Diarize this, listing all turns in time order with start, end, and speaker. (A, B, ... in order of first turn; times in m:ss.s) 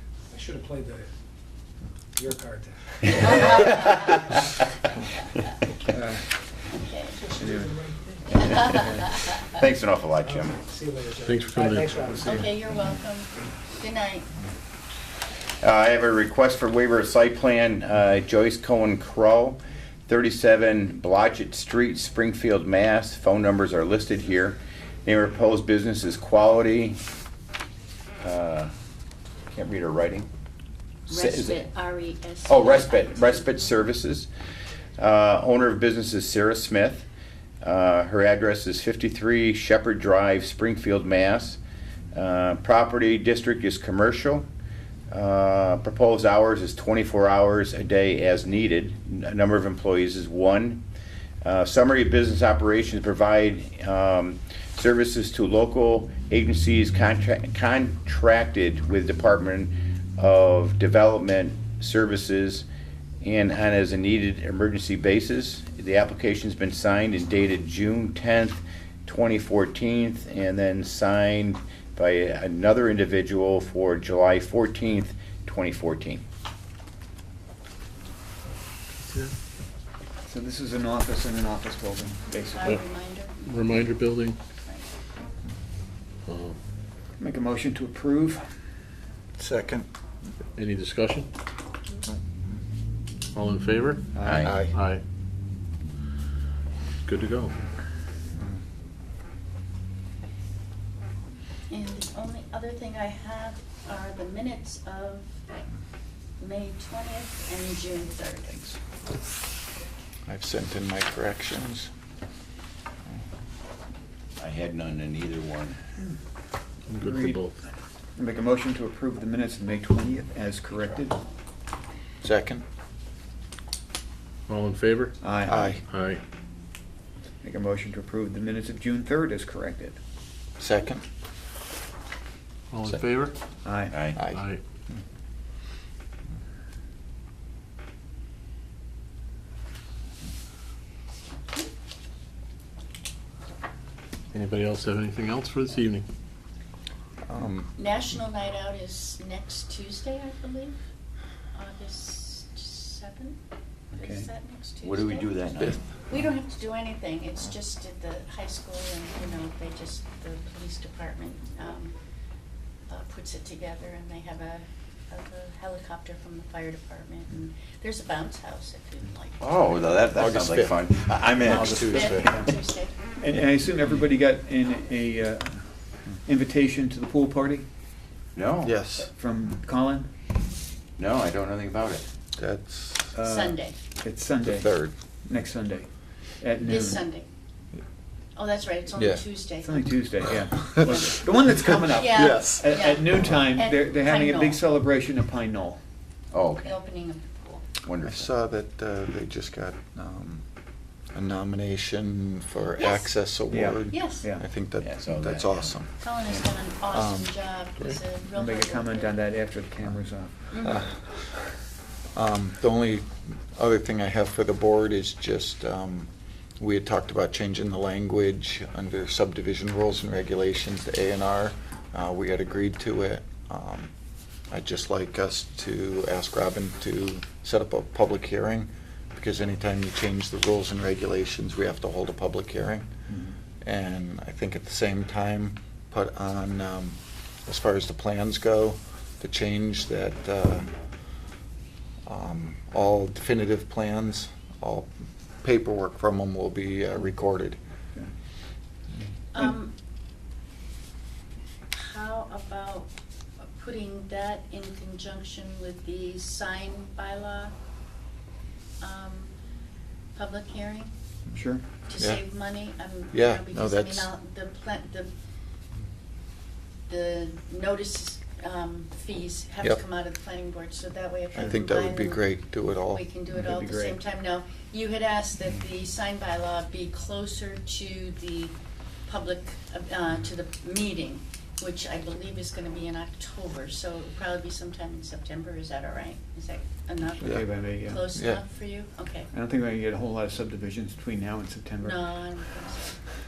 0:00.3-0:01.1 A
0:02.2-0:03.3 A
0:03.3-0:03.7 B
0:03.4-0:04.1 C
0:05.9-0:06.3 D
0:06.8-0:07.2 B
0:07.2-0:08.5 A
0:07.4-0:07.8 D
0:08.3-0:10.6 C
0:10.5-0:12.6 A
0:11.2-0:12.4 E
0:12.2-0:14.3 B
0:15.6-0:27.0 C
0:28.2-0:28.7 C
0:29.5-0:30.3 C
0:31.1-0:31.7 C
0:31.1-0:33.6 B
0:32.5-0:34.3 C
0:35.0-0:37.1 C
0:37.6-0:41.6 C
0:42.1-0:44.5 C
0:45.1-0:50.8 C
0:51.4-1:02.7 C
1:03.2-1:16.2 C
1:19.1-1:19.3 E
1:20.3-1:22.7 D
1:22.6-1:23.5 B
1:23.4-1:24.4 E
1:26.3-1:26.6 E
1:27.2-1:28.5 D
1:29.4-1:29.9 F
1:30.6-1:31.3 E
1:33.3-1:34.1 E
1:34.2-1:34.6 D
1:34.2-1:34.6 C
1:34.4-1:34.8 F
1:34.6-1:35.0 E
1:37.1-1:37.5 E
1:41.7-1:45.7 B
1:46.4-1:48.8 B
1:50.3-1:51.9 F
1:54.4-1:55.8 C
1:56.9-1:57.6 E
1:57.0-1:57.5 D
1:58.2-2:01.2 D
2:02.2-2:02.6 F
2:04.5-2:05.2 E
2:05.2-2:05.8 D
2:05.5-2:05.8 F
2:05.8-2:06.2 E
2:07.4-2:10.0 D
2:10.6-2:11.0 F
2:12.7-2:13.3 E
2:13.6-2:14.0 D
2:13.9-2:14.2 C
2:14.2-2:14.6 E
2:14.2-2:14.4 F
2:24.3-2:26.1 E
2:27.3-2:27.8 F
2:27.8-2:30.8 B
2:31.5-2:33.4 B
2:33.9-2:34.3 D
2:34.0-2:35.3 B
2:34.8-2:35.8 C
2:36.1-2:42.0 B
2:42.9-2:49.4 B
2:49.4-2:52.0 C
2:50.2-2:52.5 F
2:51.4-2:52.5 D
2:51.5-2:53.0 B
2:53.2-2:57.6 D
2:58.4-2:58.8 C
2:58.6-2:59.1 F
2:59.0-3:00.1 D
3:01.0-3:02.0 C
3:02.4-3:03.2 F
3:03.2-3:04.7 D
3:03.3-3:03.8 B
3:04.4-3:04.9 F
3:05.3-3:05.9 D
3:06.4-3:07.0 D
3:06.6-3:07.3 B
3:08.4-3:09.9 B
3:09.0-3:09.2 F
3:09.6-3:15.8 D
3:12.0-3:14.6 B
3:12.1-3:12.8 F
3:16.3-3:16.7 C
3:16.6-3:17.6 B
3:17.8-3:18.3 C
3:18.0-3:20.4 F
3:21.1-3:25.9 F
3:22.8-3:23.1 B
3:23.5-3:24.4 D
3:23.9-3:24.3 B
3:24.8-3:25.8 C
3:26.0-3:29.2 B
3:27.0-3:27.2 F
3:28.3-3:30.5 D
3:30.5-3:30.8 B
3:30.6-3:31.2 F
3:32.2-3:36.1 F
3:36.6-3:43.9 F
3:44.5-3:52.8 F
3:53.1-3:53.4 D
3:53.6-4:00.7 F
4:02.1-4:04.9 F
4:05.4-4:07.6 F
4:09.4-4:09.7 B
4:11.7-4:12.9 B
4:13.6-4:17.5 B
4:18.8-4:19.3 B
4:20.2-4:20.9 B
4:21.4-4:21.6 D
4:21.9-4:25.1 B
4:22.0-4:22.2 F
4:23.1-4:24.1 F
4:26.9-4:32.2 B
4:31.4-4:33.0 F
4:32.9-4:38.5 B
4:33.3-4:34.0 D
4:39.1-4:49.3 B
4:47.2-4:48.0 D
4:48.1-4:48.4 F
4:49.3-4:52.3 D
4:51.8-4:52.9 B